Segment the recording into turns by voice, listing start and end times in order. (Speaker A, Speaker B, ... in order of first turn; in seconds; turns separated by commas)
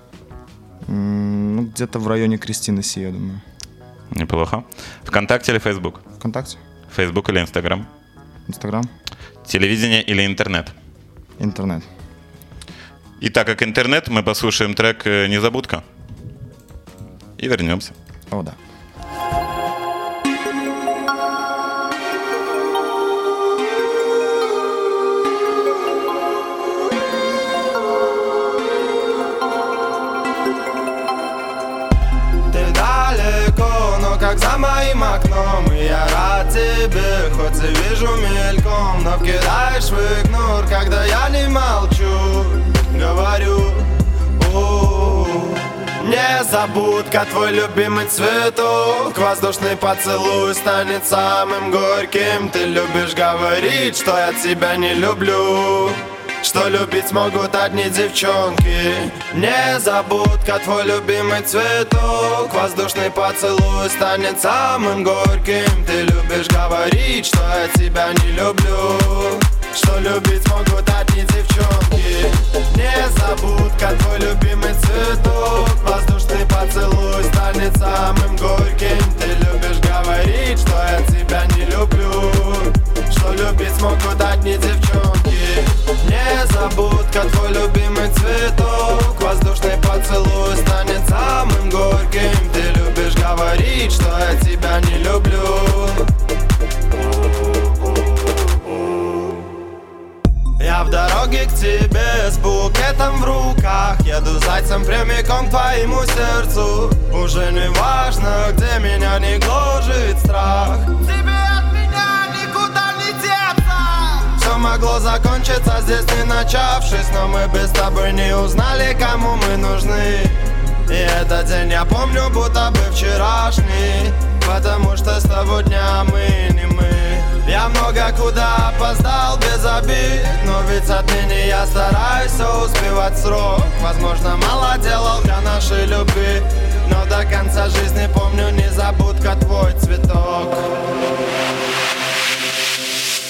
Speaker A: 0.8-3.4, Speaker B: 4.1-6.0, Speaker A: 6.2-6.6, Speaker B: 6.9-7.9, Speaker A: 8.5-8.9, Speaker B: 9.4-10.7, Speaker A: 11.4-11.9, Speaker B: 13.2-15.8, Speaker B: 17.4-17.9, Speaker A: 18.3-18.6, Speaker C: 32.5-96.1, Speaker C: 97.6-99.3, Speaker C: 100.6-140.8